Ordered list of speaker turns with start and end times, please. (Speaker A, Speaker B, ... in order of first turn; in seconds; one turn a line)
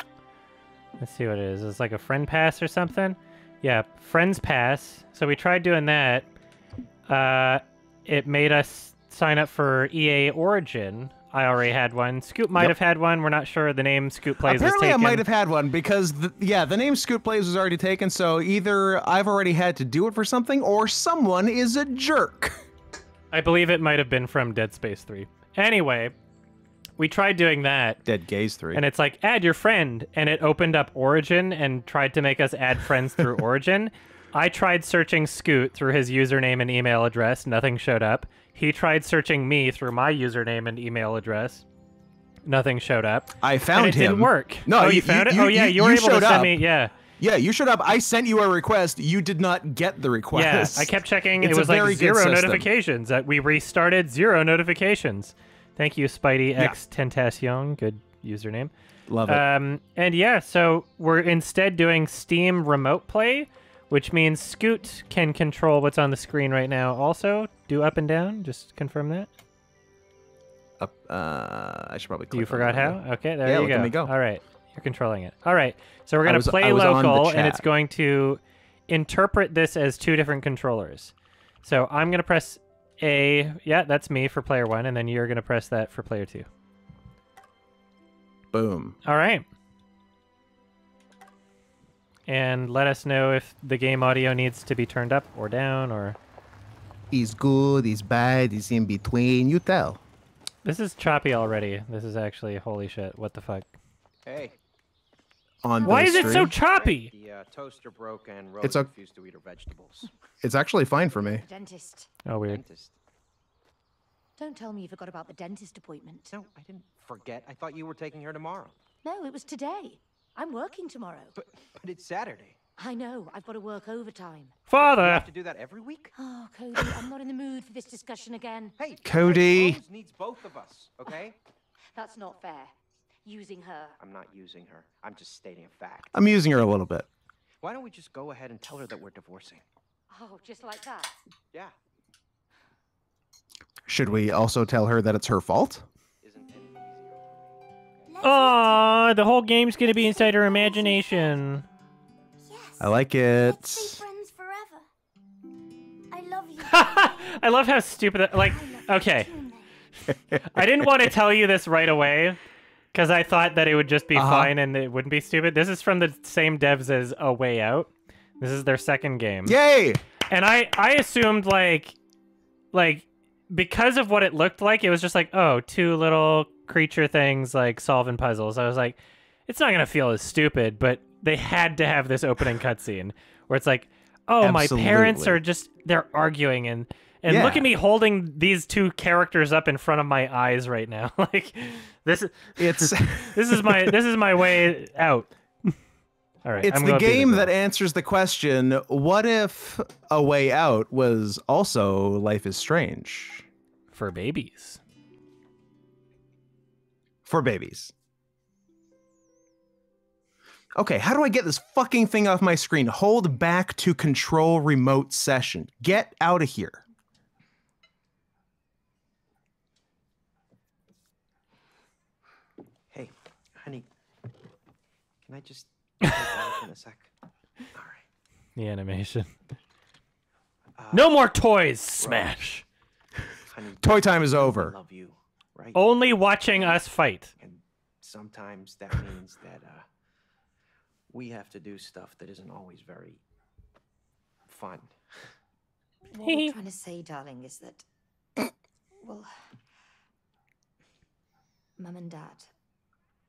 Speaker A: 1.0-6.3
Speaker A: 7.1-15.2
Speaker B: 14.4-22.6
Speaker A: 23.3-26.1
Speaker A: 27.0-28.0
Speaker B: 28.1-28.8
Speaker A: 28.7-41.6
Speaker A: 42.4-46.9
Speaker B: 43.4-46.6
Speaker B: 47.2-52.7
Speaker A: 50.3-58.7
Speaker B: 59.1-59.5
Speaker A: 59.2-69.3
Speaker B: 70.8-74.1
Speaker A: 72.3-86.5
Speaker B: 76.2-77.6
Speaker B: 88.5-89.0
Speaker A: 89.0-89.5
Speaker A: 92.3-96.2
Speaker B: 97.1-100.0
Speaker A: 100.6-103.7
Speaker C: 104.2-104.5
Speaker B: 105.6-106.5
Speaker A: 105.8-107.1
Speaker C: 106.0-110.1
Speaker B: 108.6-108.9
Speaker B: 110.4-111.4
Speaker D: 111.1-112.1
Speaker A: 112.2-112.6
Speaker C: 112.5-112.9
Speaker D: 114.4-116.3
Speaker C: 116.3-118.8
Speaker D: 119.0-121.3
Speaker C: 121.4-122.6
Speaker D: 122.8-124.6
Speaker A: 124.7-125.3
Speaker C: 124.8-126.1
Speaker D: 126.2-128.8
Speaker C: 128.8-131.3
Speaker B: 129.0-129.8
Speaker D: 131.9-132.7
Speaker D: 133.2-134.0
Speaker C: 134.0-136.2
Speaker B: 136.1-137.1
Speaker C: 137.6-139.6
Speaker D: 140.1-141.1
Speaker B: 143.9-145.8
Speaker C: 146.2-147.3
Speaker E: 148.1-149.1
Speaker A: 148.2-151.6
Speaker E: 149.8-151.4
Speaker E: 152.4-154.9
Speaker B: 152.8-154.0
Speaker E: 156.1-157.3
Speaker A: 156.6-159.3
Speaker E: 158.3-159.7
Speaker B: 160.3-160.9
Speaker A: 160.5-162.4
Speaker A: 162.9-169.6
Speaker B: 164.1-164.5
Speaker B: 169.4-170.0
Speaker A: 170.2-172.0
Speaker A: 172.7-195.7
Speaker B: 184.4-185.4
Speaker B: 187.3-187.7
Speaker B: 192.6-194.0
Speaker A: 196.4-197.5
Speaker B: 196.6-203.5
Speaker A: 203.9-204.8
Speaker B: 207.2-207.9
Speaker B: 210.8-216.8
Speaker C: 222.9-223.9
Speaker C: 225.2-227.1
Speaker C: 227.7-228.1
Speaker A: 228.6-229.3
Speaker C: 230.8-231.2
Speaker A: 230.9-232.6
Speaker C: 232.0-232.4
Speaker C: 233.5-235.8
Speaker B: 233.8-234.8
Speaker A: 235.7-237.3
Speaker C: 237.4-239.8
Speaker C: 241.1-243.2
Speaker C: 244.5-244.9
Speaker D: 246.1-247.8
Speaker A: 246.1-246.5
Speaker D: 249.0-249.3
Speaker D: 251.8-252.5